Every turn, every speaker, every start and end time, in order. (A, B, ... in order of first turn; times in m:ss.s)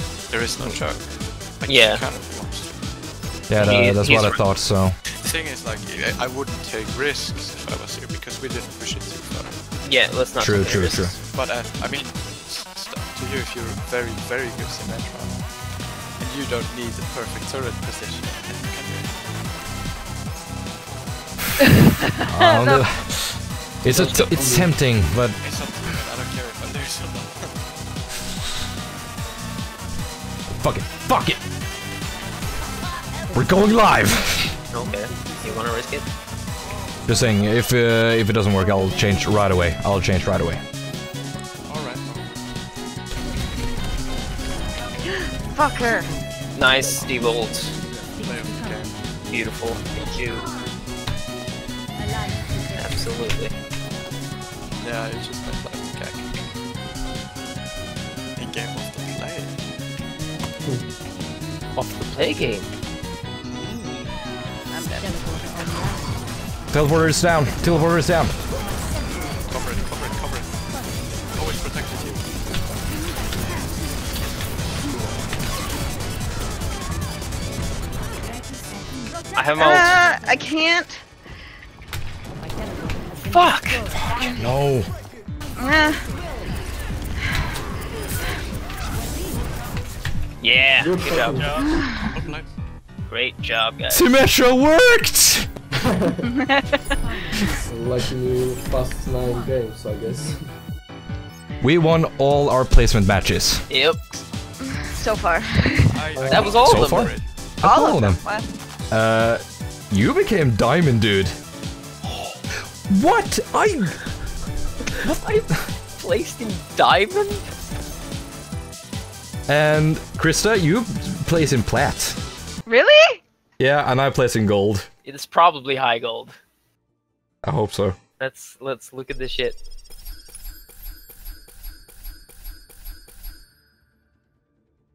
0:00.3-0:03.0 A
0:01.6-0:02.0 B
0:03.5-0:05.0 C
0:03.6-0:04.4 B
0:05.2-0:09.8 A
0:09.8-0:11.1 B
0:10.4-0:11.1 C
0:10.8-0:15.5 A
0:16.2-0:19.2 A
0:22.2-0:22.9 D
0:22.2-0:25.4 C
0:23.9-0:24.6 E
0:25.4-0:27.6 A
0:30.5-0:31.4 C
0:33.3-0:34.6 C
0:34.7-0:36.0 B
0:37.1-0:40.6 C
0:41.7-0:42.4 A
0:45.4-0:46.1 D
0:46.5-0:47.7 B
0:48.2-0:49.0 A
0:49.3-0:50.5 B
0:52.7-0:53.5 B
0:54.8-0:56.3 A
0:58.4-0:59.7 A
1:01.8-1:02.7 B
1:04.7-1:05.6 D
1:06.7-1:08.3 C
1:09.5-1:10.6 A
1:11.3-1:12.3 A
1:19.3-1:20.0 B
1:19.6-1:21.0 D
1:23.2-1:23.9 B
1:24.1-1:24.9 C
1:25.6-1:26.1 D
1:30.4-1:31.6 B
1:30.8-1:31.5 E
1:31.4-1:32.5 A
1:33.1-1:34.1 B
1:33.9-1:35.5 C
1:36.3-1:37.0 D
1:37.7-1:40.4 E
1:41.6-1:43.6 C
1:43.7-1:44.2 B
1:44.6-1:46.2 D
1:45.9-1:47.2 A
1:46.3-1:47.1 B
1:46.3-1:48.2 C
1:47.6-1:48.4 D
1:48.9-1:51.3 C
1:52.9-1:54.0 C
1:55.1-1:57.5 B
1:59.5-2:02.2 C
2:02.6-2:03.2 D
2:03.6-2:04.9 C
2:05.0-2:06.3 B
2:07.4-2:08.0 C
2:08.2-2:09.6 B